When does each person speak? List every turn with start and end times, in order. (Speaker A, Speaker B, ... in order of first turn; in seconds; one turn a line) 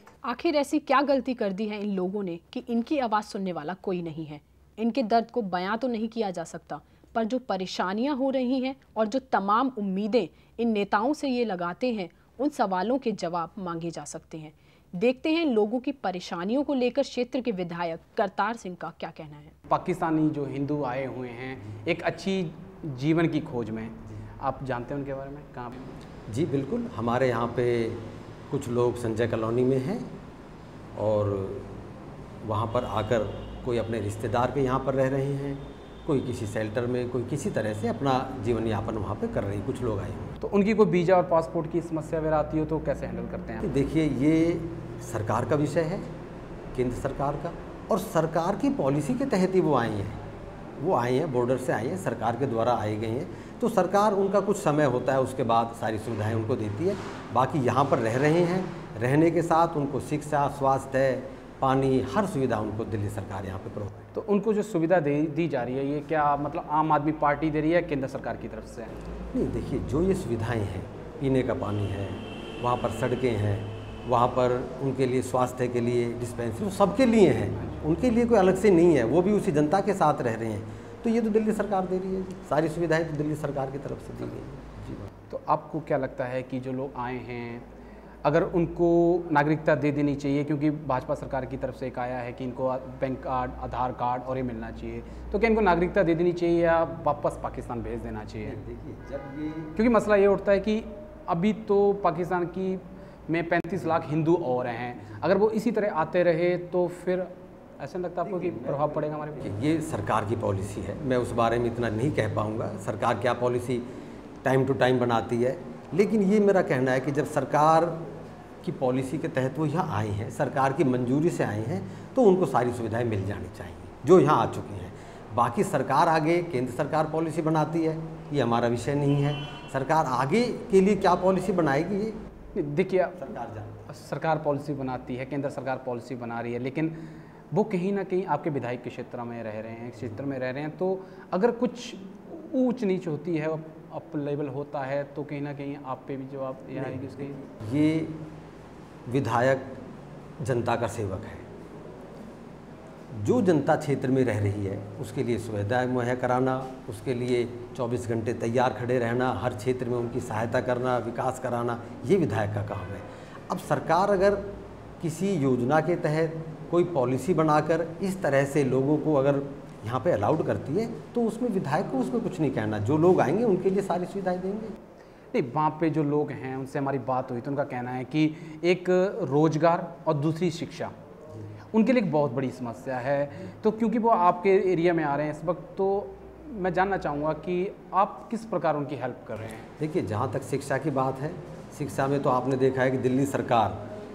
Speaker A: 0.2-19.5
Speaker B: 19.7-26.0
Speaker C: 26.3-30.1
Speaker C: 31.0-31.8
Speaker C: 32.4-40.3
Speaker B: 40.4-43.7
Speaker C: 43.6-46.1
Speaker C: 46.8-50.2
Speaker C: 50.8-64.1
Speaker B: 64.1-69.0
Speaker C: 69.3-85.1
Speaker B: 85.3-87.7
Speaker B: 88.2-98.6
Speaker C: 98.5-99.8
Speaker B: 99.8-109.6
Speaker C: 109.4-113.9
Speaker C: 114.4-118.0
Speaker C: 118.6-132.2
Speaker B: 132.6-133.2
Speaker C: 133.2-133.9
Speaker B: 133.9-136.9
Speaker B: 137.5-147.4
Speaker C: 147.6-148.2
Speaker C: 149.1-149.8
Speaker C: 150.4-151.5
Speaker C: 153.2-174.8
Speaker B: 175.3-180.9
Speaker B: 181.7-189.7
Speaker C: 189.8-193.8